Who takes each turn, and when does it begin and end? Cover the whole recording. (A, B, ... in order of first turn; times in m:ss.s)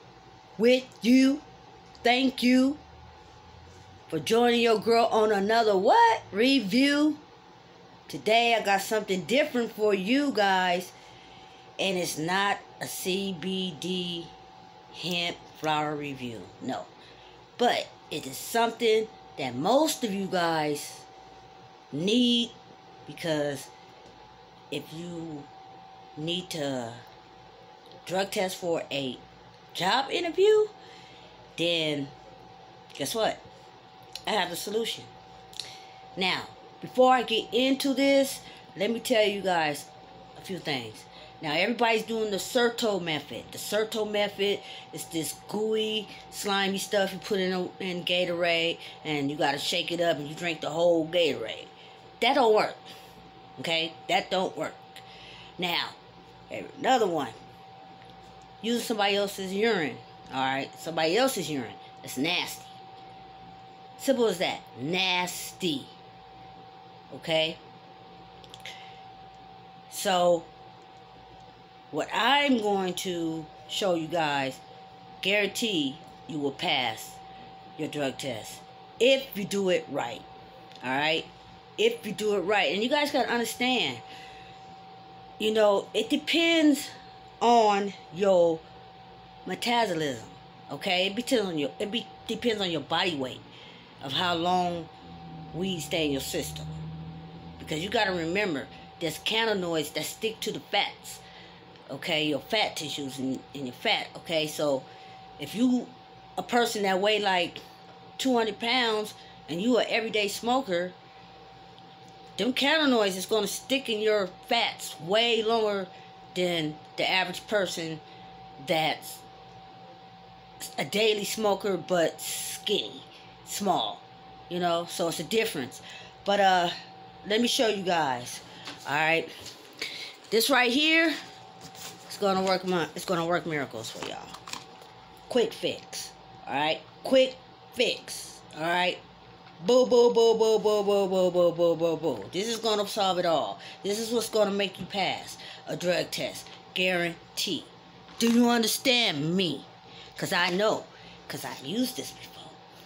0:00.6-0:01.4 A
0:02.0-0:02.8 A
0:04.1-0:07.2 A
0:08.1-0:10.9 A
0:11.8-0:14.3 A
0:14.9-0:16.9 A
0:17.6-0:21.1 A
0:21.9-0:23.7 A
0:24.7-0:25.5 A
0:26.2-0:27.0 A
0:28.0-0:29.2 A
0:29.7-0:30.7 A
0:31.6-0:32.1 A
0:32.9-0:33.4 A
0:34.2-0:35.1 A
0:36.2-0:52.8 A
0:53.6-0:55.0 A
0:55.6-0:56.0 A
0:56.5-0:57.4 A
0:58.6-1:02.8 A
1:04.0-1:06.0 A
1:07.1-1:07.6 A
1:09.9-1:10.5 A
1:11.9-1:14.6 A
1:15.2-1:17.2 A
1:17.8-1:20.2 A
1:20.8-1:24.0 A
1:25.4-1:28.6 A
1:29.4-1:33.4 A
1:34.0-1:34.9 A
1:35.5-1:36.7 A
1:37.6-1:41.2 A
1:41.9-1:44.9 A
1:45.4-1:47.6 A
1:48.2-1:51.0 A
1:52.4-1:58.0 A
1:58.6-1:59.2 A
2:00.6-2:09.3 A
2:10.3-2:11.2 A
2:12.1-2:14.3 A
2:15.3-2:19.0 A
2:19.6-2:32.6 A